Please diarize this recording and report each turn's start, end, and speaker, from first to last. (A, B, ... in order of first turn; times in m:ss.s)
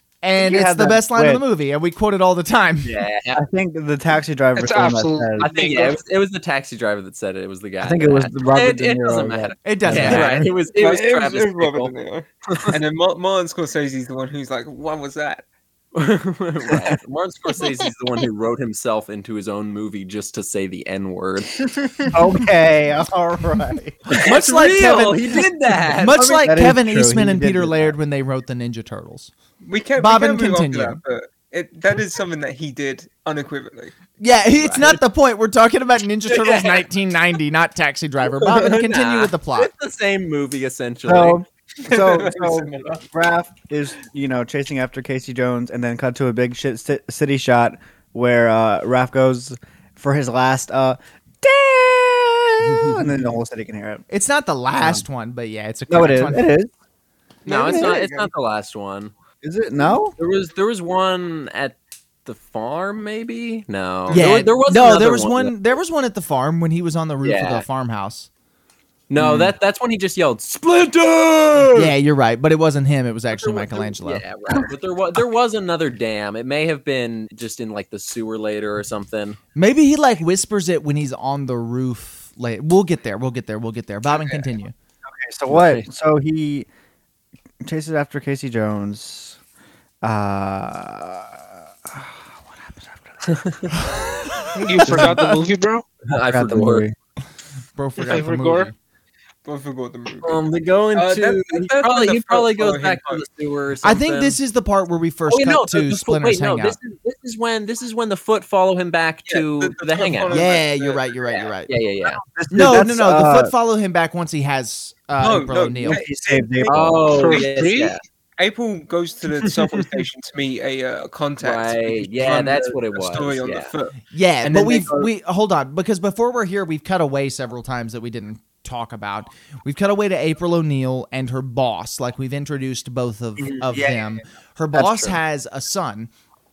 0:00.2-0:03.0 A
0:00.4-0:01.4 B
0:02.8-0:03.4 C
0:03.3-0:05.5 B
0:04.6-0:06.0 D
0:05.4-0:11.9 C
0:07.8-0:10.3 B
0:09.6-0:10.5 A
0:10.8-0:15.4 E
0:12.5-0:12.8 C
0:15.9-0:21.9 C
0:22.1-0:24.0 B
0:24.1-0:26.4 C
0:24.1-0:29.3 A
0:26.2-0:27.9 B
0:29.6-0:33.9 E
0:30.0-0:31.0 A
0:34.2-0:39.7 A
0:34.6-0:35.0 C
0:36.3-0:36.8 C
0:38.3-0:41.4 C
0:41.0-0:54.0 B
0:41.8-0:43.0 E
0:54.1-0:56.5 A
0:54.8-0:55.0 B
0:55.9-0:56.7 B
0:57.4-0:58.3 E
0:57.4-0:59.1 C
0:57.5-0:58.0 B
0:59.4-1:00.2 B
1:00.2-1:05.5 C
1:04.1-1:08.3 A
1:07.2-1:07.6 C
1:09.1-1:11.9 C
1:09.2-1:09.5 B
1:11.7-1:14.2 A
1:13.3-1:19.4 C
1:19.6-1:24.7 A
1:25.1-1:26.7 B
1:25.5-1:25.8 C
1:27.6-1:29.4 B
1:30.0-1:33.3 B
1:33.3-1:33.6 C
1:33.7-1:35.3 A
1:34.6-1:35.0 E
1:34.6-1:35.8 D
1:34.9-1:35.2 B
1:36.1-1:36.9 C
1:36.3-1:36.9 B
1:37.8-1:38.8 A
1:38.0-1:38.7 D
1:39.4-1:43.2 E
1:40.2-1:44.4 C
1:43.8-1:46.8 A
1:45.3-1:50.4 C
1:49.3-1:51.4 E
1:50.3-1:51.7 A
1:51.6-1:52.2 C
1:52.2-1:53.5 B
1:52.5-1:56.0 A
1:55.2-1:56.8 E
1:55.8-1:57.1 B
1:56.6-1:58.0 C
1:57.1-1:58.0 D
1:58.4-2:05.1 E
1:59.5-1:59.9 C
2:01.4-2:03.7 C
2:04.1-2:16.1 A
2:13.4-2:13.8 C
2:14.7-2:15.2 C